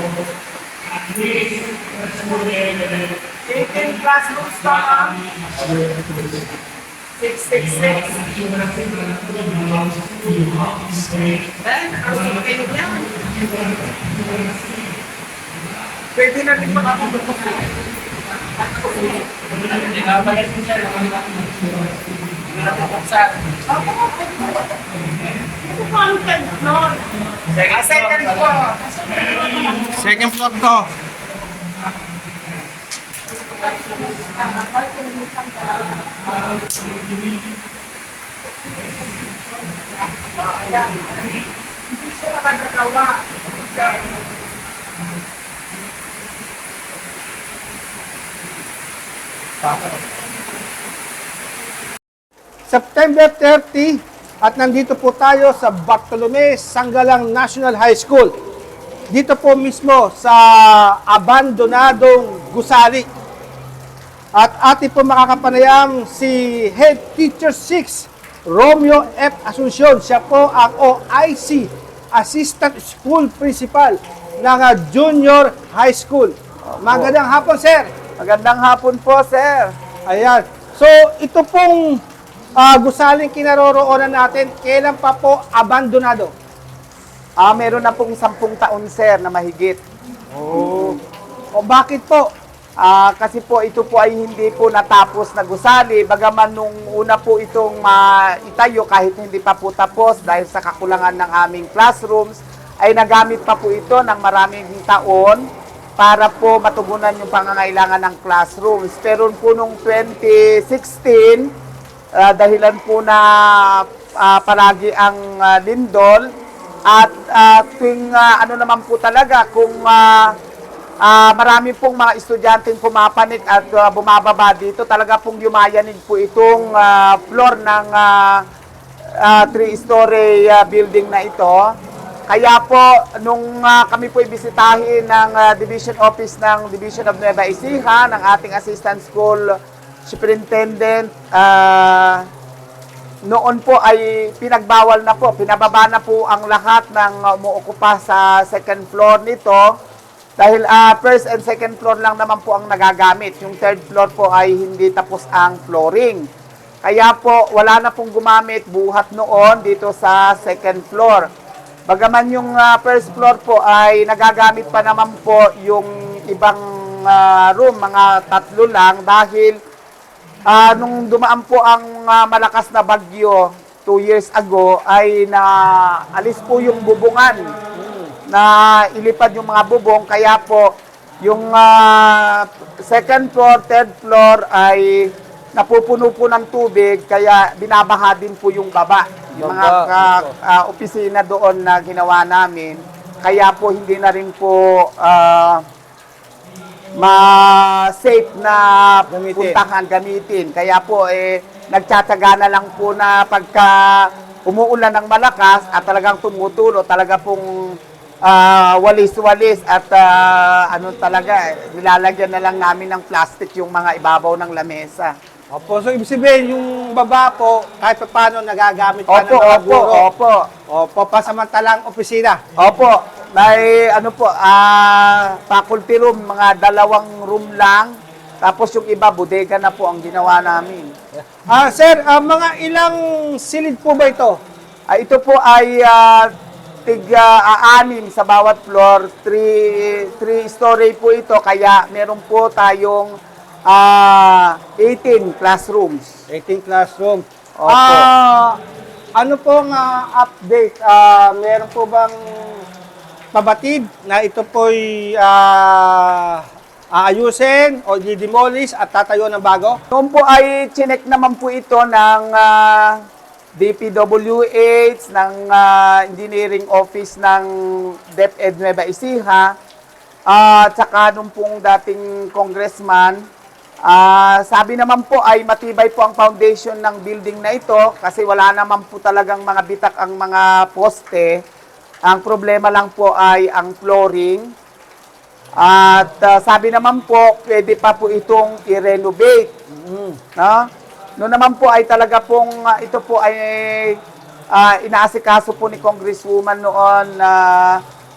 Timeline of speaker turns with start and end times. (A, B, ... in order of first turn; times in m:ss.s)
0:01.1-0:01.4 A
0:02.0-0:03.0 B
0:03.5-0:05.2 C
0:03.5-0:05.1 B
0:05.7-0:06.1 B
0:07.2-0:08.2 C
0:07.3-0:11.0 B
0:09.5-0:09.9 A
0:11.6-0:14.2 B
0:11.6-0:13.0 C
0:16.2-0:17.6 C
0:16.3-0:17.7 B
0:18.8-0:21.9 B
0:22.5-0:24.3 B
0:22.7-0:24.3 C
0:25.7-0:27.0 C
0:25.7-0:27.0 B
0:27.5-0:29.3 C
0:27.6-0:30.0 B
0:29.9-0:30.9 A
0:33.5-0:36.4 B
0:34.8-0:35.3 C
0:40.6-0:40.9 B
0:42.2-0:43.2 B
0:52.7-0:58.4 A
0:59.1-1:03.1 A
1:04.3-1:17.9 A
1:16.7-1:17.1 C
1:18.2-1:19.7 C
1:20.1-1:22.0 A
1:22.6-1:26.3 A
1:27.4-1:29.8 C
1:30.3-1:31.0 A
1:30.6-1:31.0 C
1:31.5-1:32.3 A
1:32.8-1:45.4 C
1:46.0-1:51.5 C
1:52.2-1:56.3 C
1:56.9-2:00.3 C
2:01.0-2:08.4 C
2:09.2-2:11.7 C
2:12.3-2:19.5 C
2:20.0-2:22.2 C
2:23.3-2:29.7 C
2:30.4-2:36.2 C
2:36.8-2:41.3 C
2:41.9-2:49.6 C
2:50.5-2:57.5 C
2:57.7-2:58.1 A
2:58.3-3:00.7 C
3:01.2-3:15.6 C
3:09.4-3:10.3 A
3:17.0-3:35.1 C
3:19.1-3:19.6 A
3:35.5-3:40.1 A
3:39.1-3:40.5 C
3:40.7-3:42.4 A
3:42.6-3:50.9 C
3:51.2-3:54.4 A
3:54.9-3:56.3 C
3:56.8-4:03.1 C
4:03.7-4:06.2 C
4:06.3-4:08.6 A
4:07.6-4:08.1 C
4:09.2-4:12.6 A
4:13.3-4:19.8 A
4:19.9-4:23.0 C
4:23.6-4:29.5 C
4:30.3-4:33.2 C
4:33.9-4:41.4 C
4:42.0-4:44.5 C
4:45.6-4:49.5 C
4:49.7-4:50.2 A
4:50.4-4:50.6 C
4:51.2-4:54.0 C
4:54.5-4:57.8 C